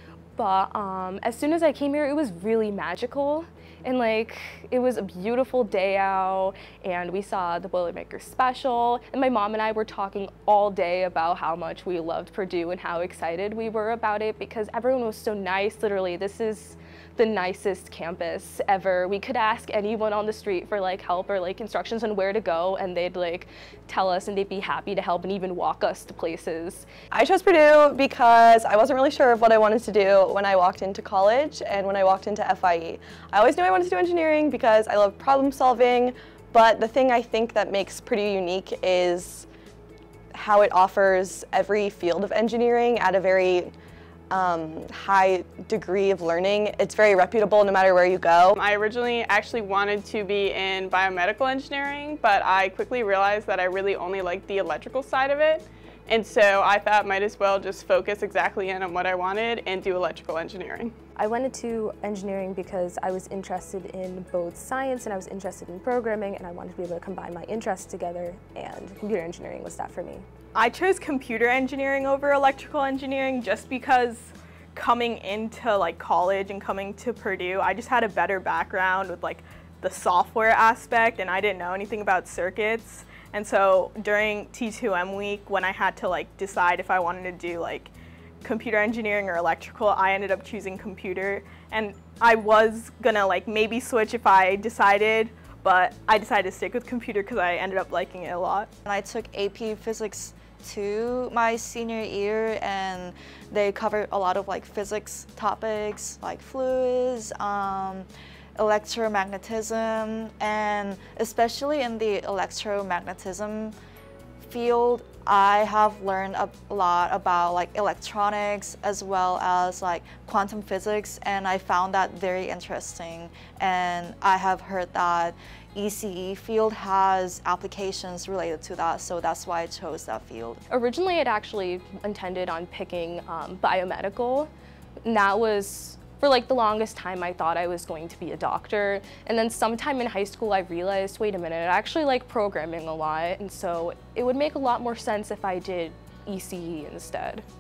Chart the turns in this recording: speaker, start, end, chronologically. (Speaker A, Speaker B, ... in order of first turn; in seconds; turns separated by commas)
Speaker A: 0.4-26.9, Speaker B: 27.1-39.5, Speaker B: 40.3-43.7, Speaker B: 44.3-48.6, Speaker C: 48.6-61.0, Speaker D: 61.2-70.2, Speaker E: 70.5-98.7, Speaker F: 98.8-113.8, Speaker F: 114.4-130.6, Speaker A: 130.7-134.5, Speaker A: 135.1-147.4